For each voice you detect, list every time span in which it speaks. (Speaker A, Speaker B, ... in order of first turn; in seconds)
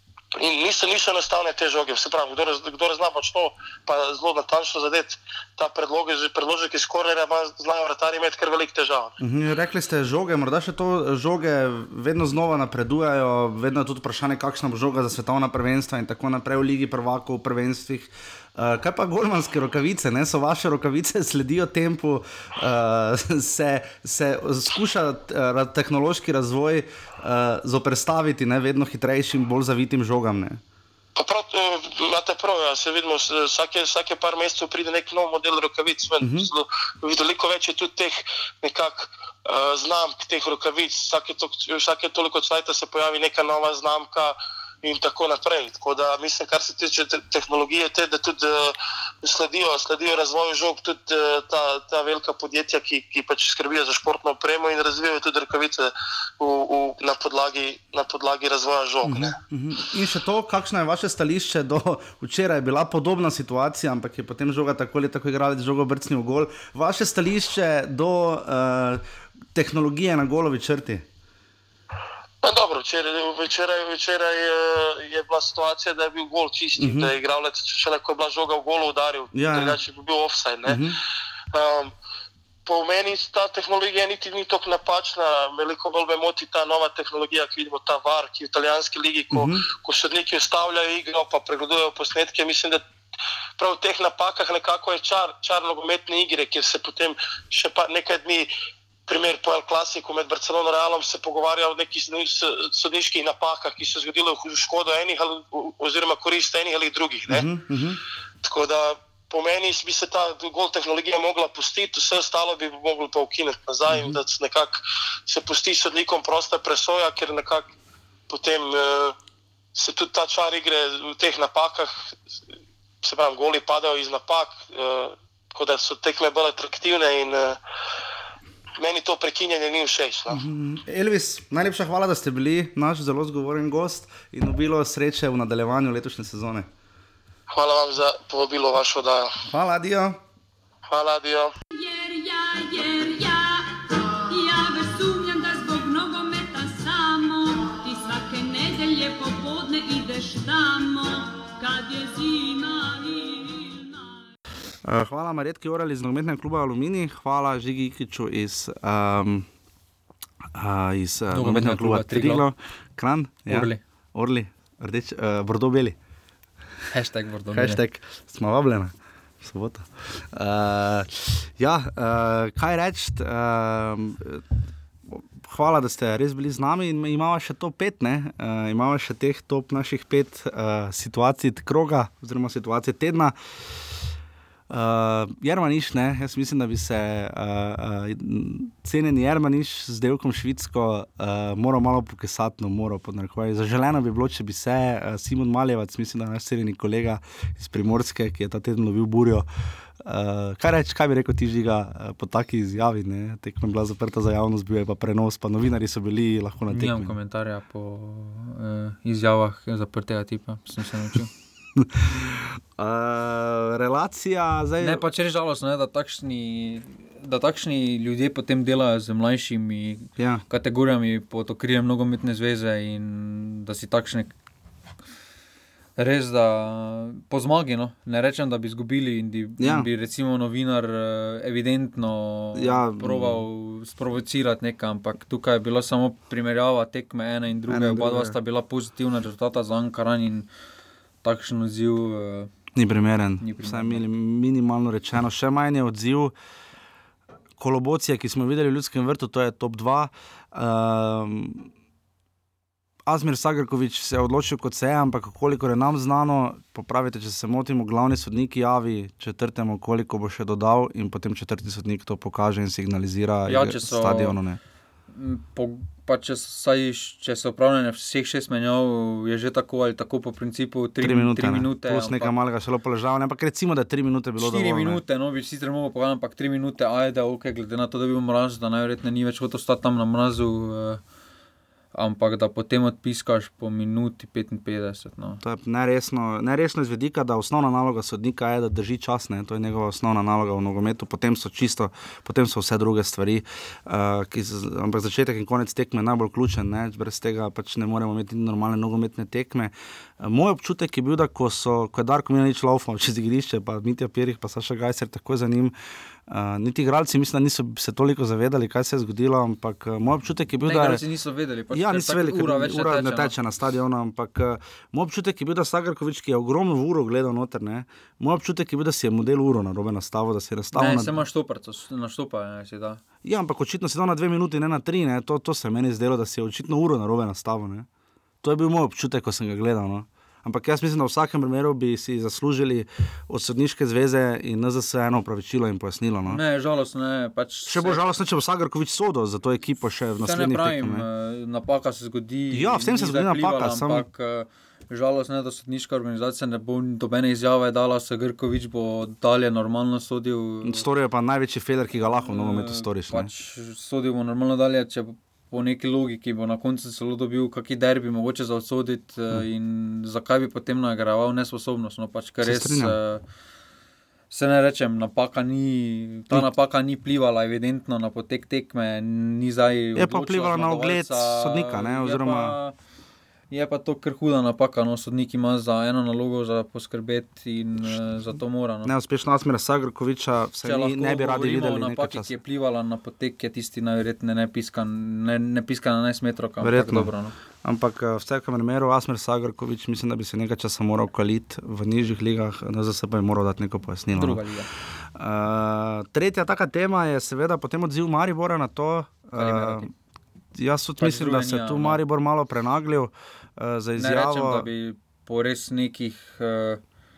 Speaker A: 0.4-9.2, 31.2-59.4, 72.4-80.8, 81.5-81.9, 82.7-92.8, 93.6-98.5, 99.1-107.5, 108.4-117.7, 118.3-119.2, 119.8-122.1, 123.0-127.6, 128.8-130.4, 137.5-139.3, 140.9-141.5
Speaker B: 9.2-30.6, 36.2-36.5, 59.0-69.0, 69.5-71.0, 76.8-77.1, 79.3-79.8, 80.7-81.0, 89.3-89.7, 107.3-108.0, 113.9-114.2, 130.3-136.7, 139.5-140.2, 154.8-159.5, 160.6-166.0, 167.5-174.4, 175.1-183.3, 184.7-199.5, 200.0-207.1, 211.8-215.0, 220.2-220.4, 229.6-229.9, 232.5-233.4, 237.7-238.3, 242.8-246.3, 247.6-251.7, 253.1-264.6, 271.0-275.0, 285.4-305.7, 306.3-311.0, 311.7-321.1, 323.2-327.9, 328.4-336.4, 337.7-341.1, 342.5-344.1, 350.6-353.3, 362.4-363.0, 370.0-372.6, 378.9-382.3, 386.6-387.1, 387.6-394.4, 395.2-399.9, 400.6-404.7
Speaker C: 141.7-154.3
Speaker D: 161.3-162.4, 163.5-163.8, 166.9-167.8, 206.7-211.3, 214.8-224.3, 226.0-240.5, 241.2-242.5, 243.4-244.0, 263.5-264.4, 265.1-272.3, 274.4-281.0, 281.9-285.4, 310.6-313.3, 320.8-323.0, 336.3-338.0, 340.2-350.9, 352.0-363.2, 364.3-372.7, 373.5-378.9, 380.6-387.3, 394.1-394.7, 399.4-399.9, 401.0-402.0, 404.0-406.8